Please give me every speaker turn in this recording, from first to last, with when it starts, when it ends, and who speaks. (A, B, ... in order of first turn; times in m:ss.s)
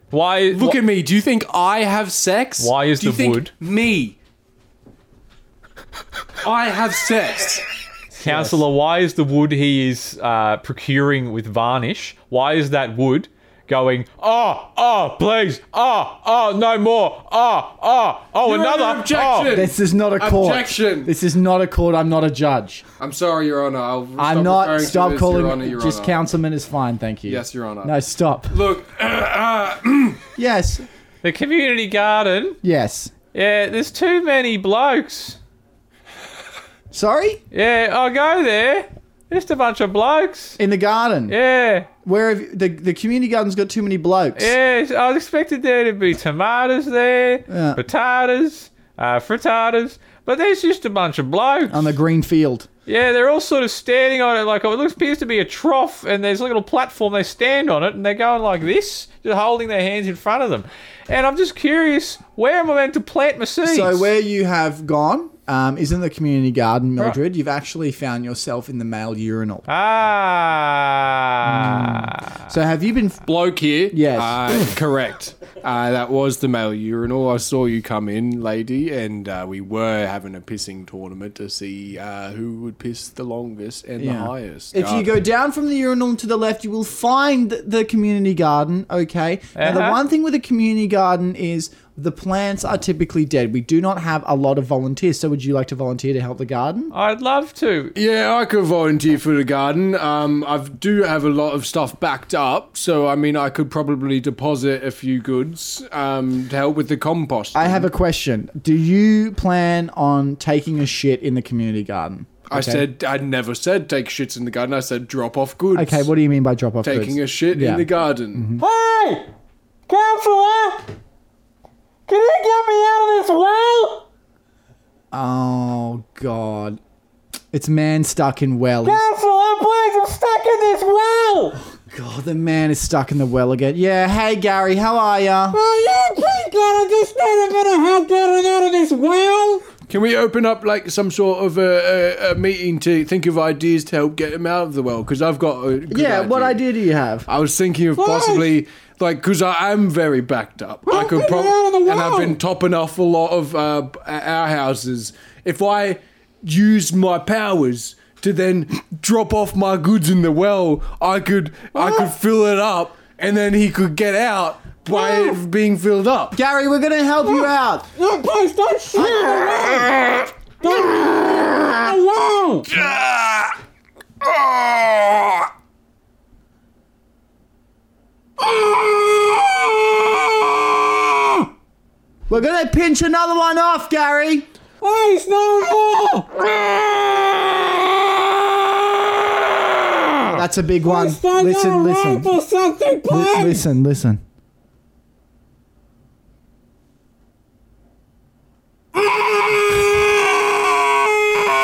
0:00.1-0:00.8 A
0:00.5-0:04.2 B
0:02.6-0:03.5 A
0:06.4-0:07.6 B
0:08.2-0:19.6 A
0:08.2-0:08.6 B
0:18.4-0:21.1 B
0:19.5-0:22.8 C
0:23.0-0:26.3 B
0:24.2-0:28.6 C
0:27.2-0:28.0 B
0:28.5-0:30.2 B
0:30.4-0:30.8 C
0:31.2-0:32.6 A
0:32.6-0:33.1 C
0:33.3-0:35.4 A
0:36.9-0:37.4 C
0:37.5-0:40.6 A
0:40.6-0:41.4 C
0:41.3-0:41.9 A
0:42.0-0:44.5 C
0:44.4-0:51.9 A
0:47.5-0:47.8 C
0:51.7-0:52.7 C
0:52.9-1:04.1 A
1:03.6-1:09.7 C
1:09.7-1:12.3 A
1:11.4-1:13.2 C
1:13.2-1:25.1 B
1:13.9-1:14.7 C
1:24.0-1:36.9 C
1:29.6-1:30.0 A
1:36.9-1:37.9 A
1:37.9-1:47.9 B
1:47.5-1:52.8 C
1:52.5-1:56.1 B
1:55.7-1:58.6 C
1:56.8-1:58.5 B
1:58.6-1:59.3 A
1:59.9-2:00.9 A
2:02.1-2:04.0 A
2:05.1-2:06.8 C
2:07.5-2:09.0 C
2:08.8-2:11.6 A
2:11.9-2:15.6 C
2:15.5-2:19.6 A
2:19.9-2:26.6 B
2:25.9-2:27.3 C
2:27.3-2:46.4 B
2:28.0-2:28.5 A
2:30.9-2:32.3 A
2:41.8-2:42.0 A
2:44.9-2:45.3 A
2:46.3-2:47.9 C
2:48.0-2:52.7 A
2:49.0-2:49.9 C
2:52.7-2:53.5 B
2:58.4-2:59.5 A
3:02.3-3:04.4 C
3:04.8-3:07.5 A
3:10.3-3:12.3 C
3:10.8-3:13.6 A
3:13.1-3:14.2 C